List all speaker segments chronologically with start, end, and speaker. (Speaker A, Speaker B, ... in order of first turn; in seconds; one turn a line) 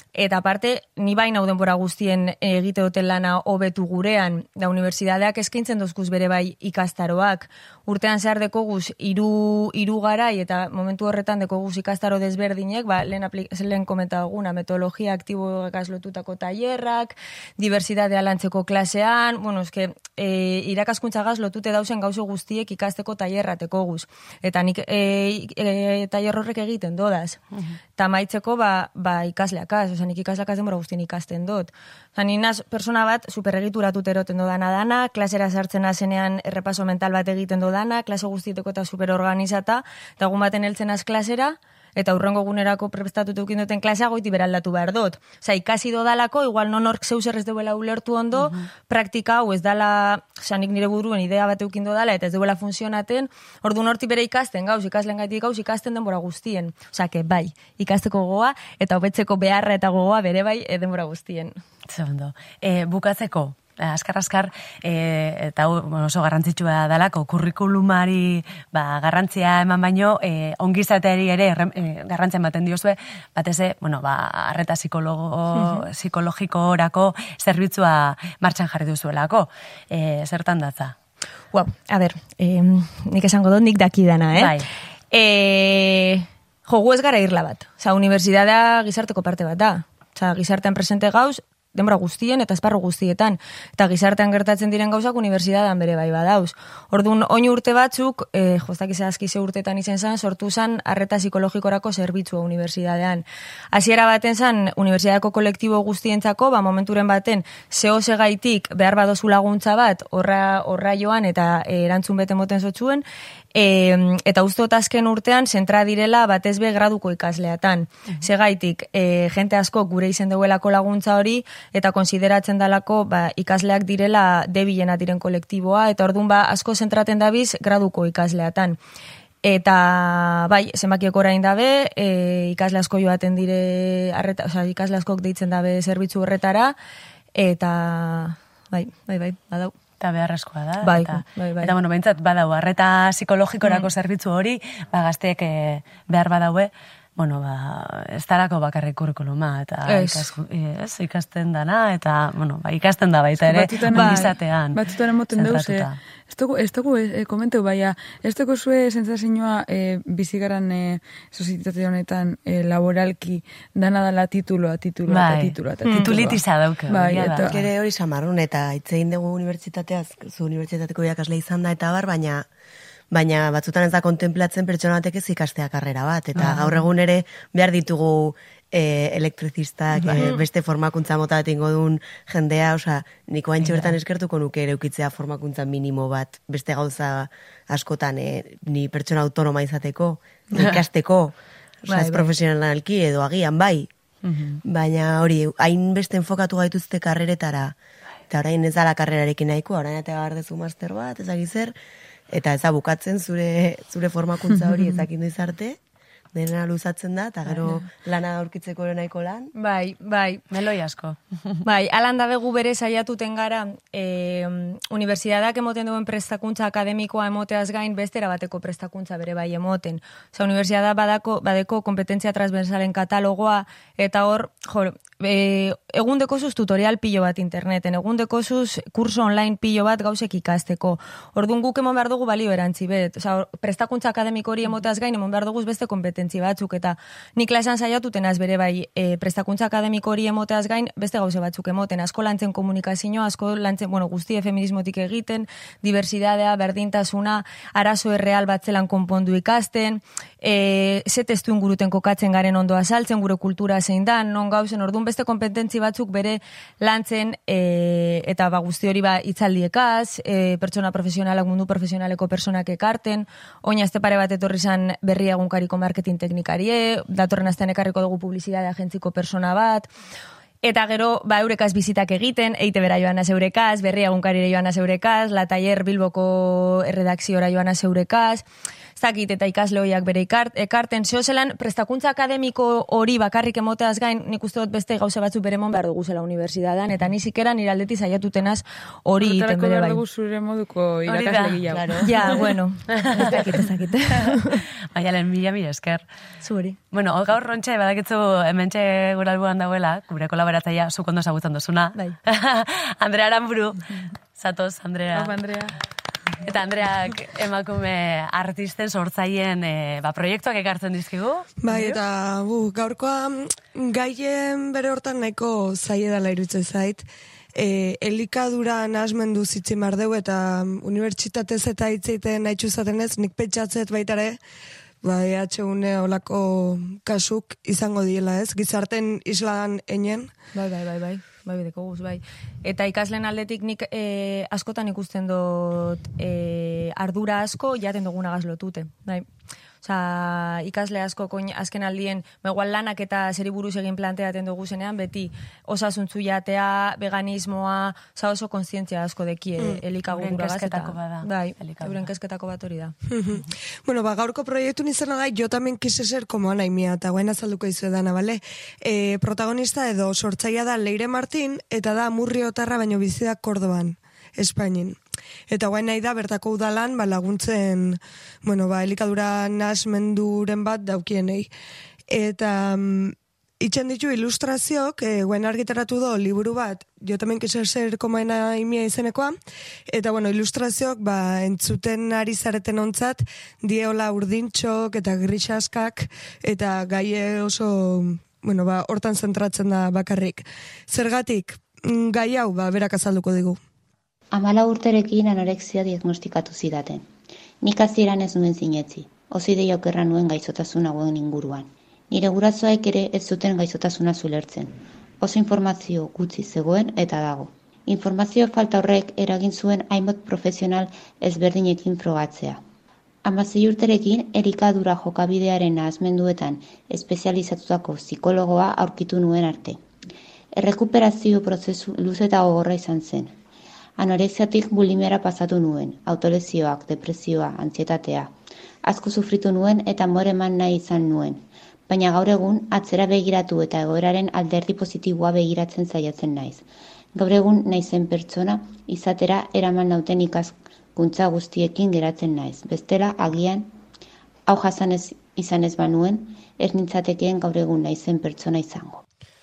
Speaker A: 0.1-27.4
Speaker A: 28.0-61.5
Speaker B: 61.9-81.0
Speaker A: 75.5-75.8
Speaker A: 81.5-128.8
Speaker B: 84.3-84.7
Speaker A: 129.4-136.8
Speaker A: 137.3-139.8
Speaker B: 140.0-156.0
Speaker A: 140.8-141.7
Speaker A: 149.9-150.3
Speaker C: 153.4-167.6
Speaker A: 153.9-154.3
Speaker B: 165.1-167.7
Speaker A: 165.8-166.2
Speaker D: 167.4-172.5
Speaker D: 173.1-191.3
Speaker B: 176.4-176.8
Speaker B: 180.0-180.3
Speaker B: 183.6-184.0
Speaker D: 191.9-193.9
Speaker A: 191.9-192.3
Speaker A: 194.2-194.6
Speaker D: 194.6-197.8
Speaker D: 198.3-201.8
Speaker D: 202.3-205.8
Speaker D: 206.3-209.5
Speaker A: 209.6-210.4
Speaker B: 210.5-211.6
Speaker A: 211.7-269.9
Speaker A: 270.6-278.4
Speaker A: 279.0-290.0
Speaker C: 289.2-292.0
Speaker B: 291.1-293.4
Speaker D: 291.7-292.3
Speaker A: 292.1-294.6
Speaker B: 294.1-296.1
Speaker A: 296.4-296.8
Speaker B: 296.9-305.4
Speaker C: 305.1-305.8
Speaker B: 306.4-311.5
Speaker E: 311.6-317.0
Speaker C: 311.7-312.0
Speaker E: 317.6-324.4
Speaker E: 325.0-330.3
Speaker A: 330.5-339.3
Speaker A: 339.8-352.9
Speaker B: 350.1-352.1
Speaker E: 353.1-371.5
Speaker E: 372.1-379.4
Speaker E: 379.9-393.6
Speaker F: 394.3-397.1
Speaker F: 397.6-412.6
Speaker F: 413.2-419.8
Speaker F: 420.5-423.4
Speaker F: 424.0-443.7
Speaker F: 444.5-449.0